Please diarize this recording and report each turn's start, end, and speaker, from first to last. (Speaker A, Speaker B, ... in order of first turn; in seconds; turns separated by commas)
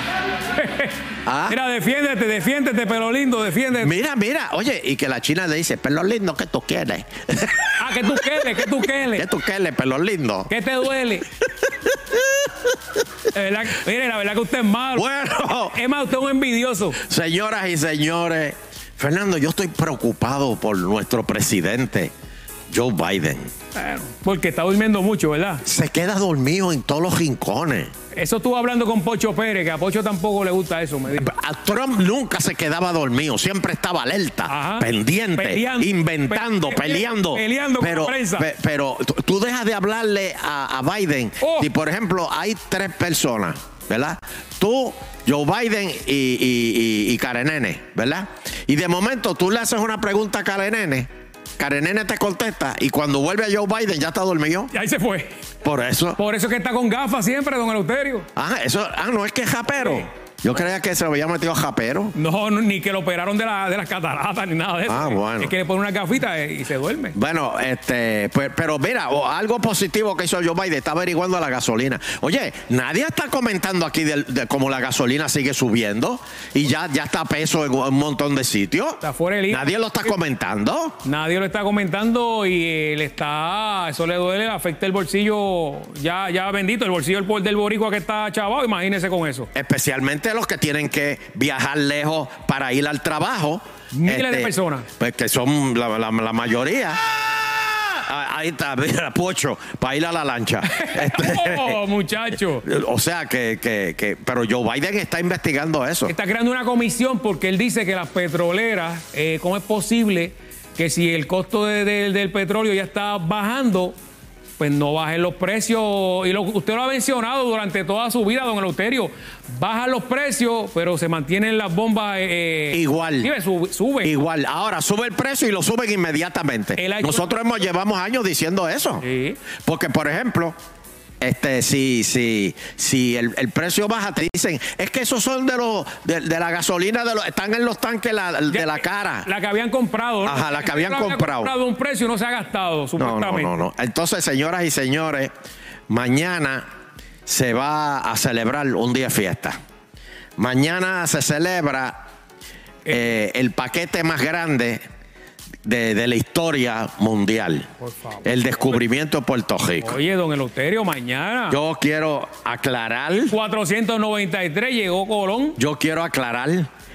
Speaker A: 0.5-3.9, Speaker B: 1.2-1.6, Speaker B: 3.7-10.5, Speaker A: 7.8-9.2, Speaker A: 10.5-11.3, Speaker B: 11.4-12.5, Speaker A: 13.3-15.1, Speaker B: 14.9-15.8, Speaker A: 15.7-17.0, Speaker B: 17.0-22.1, Speaker B: 22.7-23.5, Speaker A: 23.7-25.6, Speaker B: 25.6-27.9, Speaker A: 28.1-31.3, Speaker B: 31.1-51.1, Speaker A: 34.5-38.5, Speaker A: 41.4-41.7, Speaker B: 51.6-54.7, Speaker A: 54.7-55.4, Speaker B: 55.6-56.2, Speaker A: 56.2-58.2, Speaker B: 58.4-62.1, Speaker A: 59.7-60.0, Speaker A: 62.1-67.2, Speaker B: 64.9-65.5, Speaker B: 67.1-81.0, Speaker A: 79.0-80.1, Speaker A: 81.0-89.5, Speaker B: 89.5-97.0, Speaker A: 93.9-94.9, Speaker B: 97.7-101.8, Speaker A: 100.6-102.6, Speaker B: 102.6-106.1, Speaker A: 106.1-113.9, Speaker A: 114.6-124.2, Speaker B: 122.7-123.3, Speaker B: 124.0-129.0, Speaker A: 126.8-127.3, Speaker A: 129.0-129.4, Speaker B: 129.6-130.5, Speaker B: 131.2-139.3, Speaker A: 138.5-143.6, Speaker B: 140.2-141.5, Speaker B: 143.0-145.3, Speaker B: 145.9-146.6, Speaker B: 147.2-149.6, Speaker B: 150.4-152.0, Speaker A: 152.8-153.2, Speaker B: 152.9-154.8, Speaker B: 155.6-157.7, Speaker A: 157.8-158.2, Speaker B: 158.2-160.0, Speaker A: 159.8-161.6, Speaker B: 161.5-163.3, Speaker A: 163.3-165.6, Speaker B: 165.6-166.7